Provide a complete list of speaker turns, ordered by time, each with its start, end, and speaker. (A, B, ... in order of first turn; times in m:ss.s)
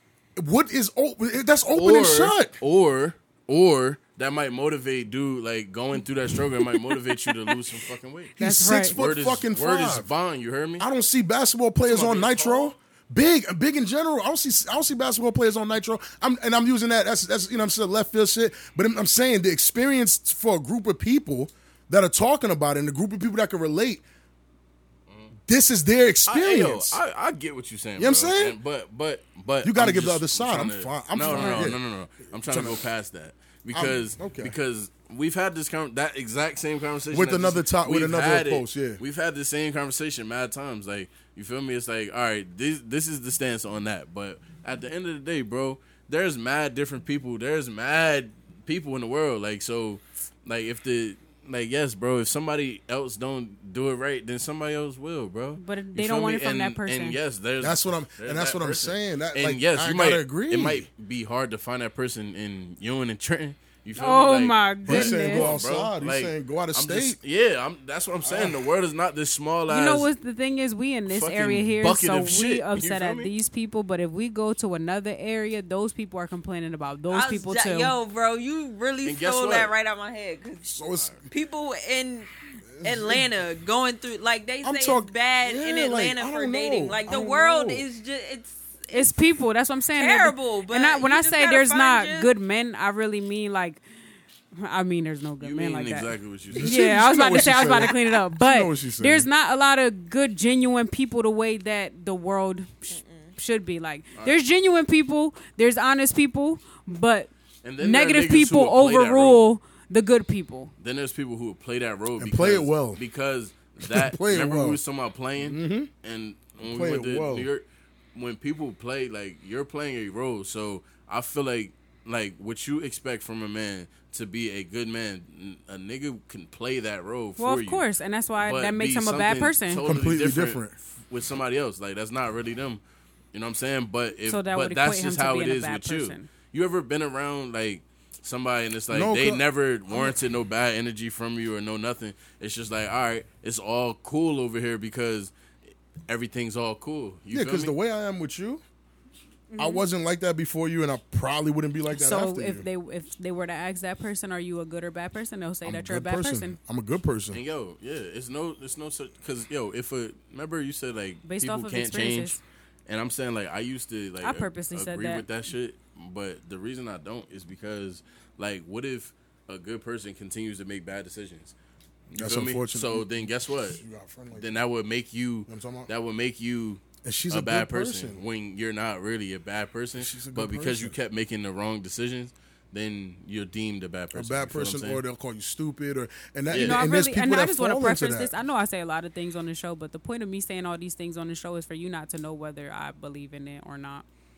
0:00.4-0:02.6 A
0:01.7-0:08.4 B
0:08.4-0:10.1 A
0:08.4-0:09.0 C
0:09.0-0:10.9 B
0:10.8-0:24.0 A
0:11.8-0:12.8 B
0:25.5-0:27.0 A
0:26.3-1:10.1 B
0:28.0-0:28.6 A
0:29.6-0:31.8 A
0:31.2-0:31.6 C
0:32.5-0:32.8 A
0:33.7-0:34.6 A
0:37.1-0:39.0 A
0:55.6-0:57.2 C
0:57.6-1:00.9 A
1:04.0-1:05.5 C
1:04.9-1:07.2 A
1:08.2-1:08.6 A
1:09.7-1:17.9 C
1:11.1-1:13.3 B
1:17.1-1:20.7 D
1:19.0-1:19.7 B
1:20.6-1:21.1 A
1:21.2-1:22.3 D
1:22.8-1:23.3 A
1:22.8-1:29.1 D
1:24.6-1:27.9 A
1:28.9-1:33.8 C
1:30.0-1:32.3 D
1:34.6-1:50.7 C
1:35.4-1:36.8 B
1:36.5-1:39.3 A
1:42.9-1:43.3 D
1:47.6-1:49.4 B
1:50.8-2:07.8 B
1:52.2-1:53.0 A
1:53.8-1:54.8 A
1:55.4-1:55.9 A
1:56.6-1:57.5 A
2:07.4-2:09.9 C
2:08.4-2:12.8 B
2:09.8-2:10.8 A
2:13.3-2:25.3 B
2:14.3-2:16.3 C
2:18.9-2:20.1 A
2:26.1-2:27.7 B
2:27.3-2:28.6 A
2:29.5-2:29.8 C
2:29.6-2:32.6 A
2:31.9-2:36.6 C
2:35.6-2:37.4 A
2:37.3-2:51.6 B
2:41.2-2:42.4 C
2:44.2-2:45.2 C
2:52.1-2:53.8 B
2:52.2-2:54.5 A
2:54.3-3:05.0 B
2:55.5-2:55.9 A
2:57.0-2:58.2 A
3:00.0-3:01.0 A
3:04.1-3:08.3 A
3:06.5-3:06.8 B
3:06.5-3:14.1 C